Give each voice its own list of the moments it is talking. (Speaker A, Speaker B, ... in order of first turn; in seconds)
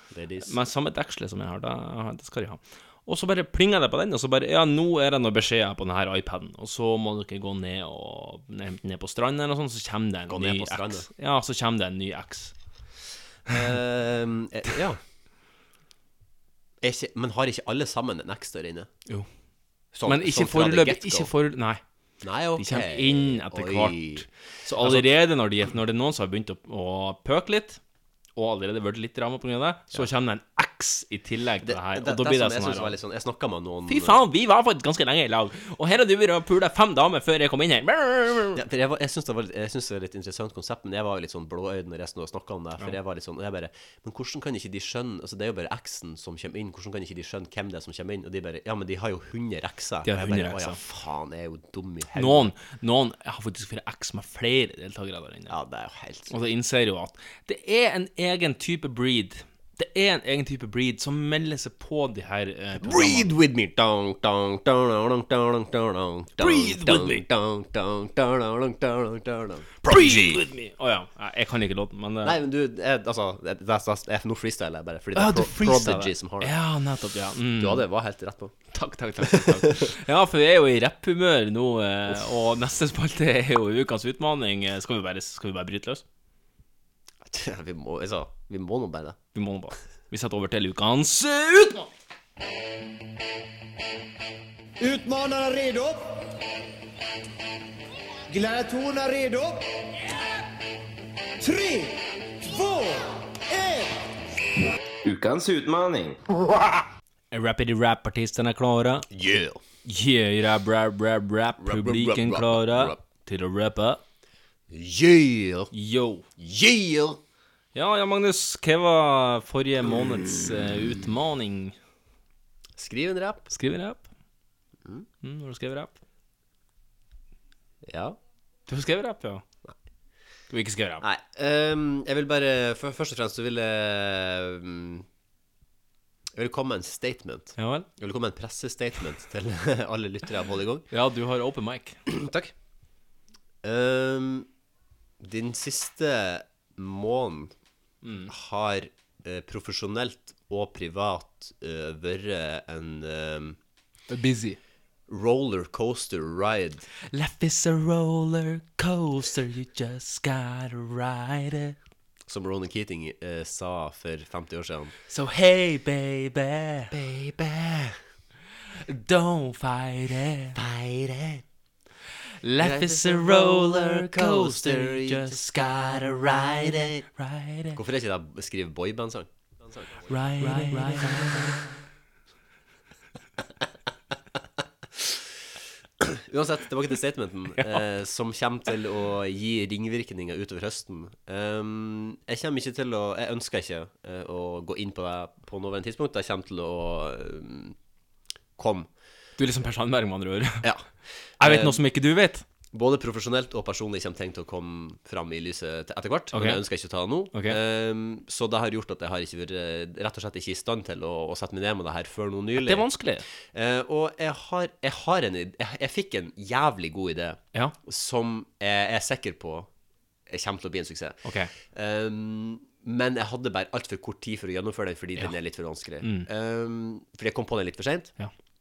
Speaker A: 0.1-0.6, 10.3-11.1, 13.5-15.0, 16.8-18.9, 19.9-21.3, 22.2-24.3, 24.8-25.1, 31.6-34.2, 38.5-52.5, 55.5-56.3, 62.8-70.4, 72.2-76.5, 77.6-78.5, 79.2-79.9, 87.2-89.2, 109.1-109.6, 111.6-113.0, 114.7-115.7, 116.4-117.2, 122.8-123.5, 127.8-128.2, 131.0-135.1, 136.3-140.9, 142.1-142.5, 143.6-144.5, 145.2-147.5, 148.3-153.6, 155.1-156.8, 162.3-164.9, 166.9-168.0, 170.5-171.4, 172.6-177.0, 177.7-181.8, 186.0-197.8, 198.6-198.9, 201.4-201.8, 202.7-212.9, 213.4-219.7, 220.3-221.2, 221.7-228.1
Speaker B: 0.4-12.5, 20.1-21.8, 22.6-27.8, 28.4-33.0, 33.9-38.6, 50.0-50.8, 52.1-55.5, 56.3-63.3, 66.4-67.2, 69.8-72.4, 75.1-77.8, 78.7-86.0, 89.3-91.9, 107.3-109.0, 109.8-114.0, 115.7-116.2, 117.7-121.7, 123.5-124.1, 125.2-126.0, 128.7-129.4, 130.5-131.0, 137.6-137.9, 140.9-142.0, 148.0-148.3, 154.1-154.6, 157.0-161.8, 165.1-166.9, 168.8-170.6, 172.4-177.8, 180.1-181.7, 187.6-187.8, 199.4-200.7, 201.4-202.4, 206.3-206.6, 212.6-213.2, 221.2-221.5, 226.0-226.3
Speaker C: 94.8-96.0, 98.3-99.6, 101.4-101.9, 102.5-103.0, 103.5-103.8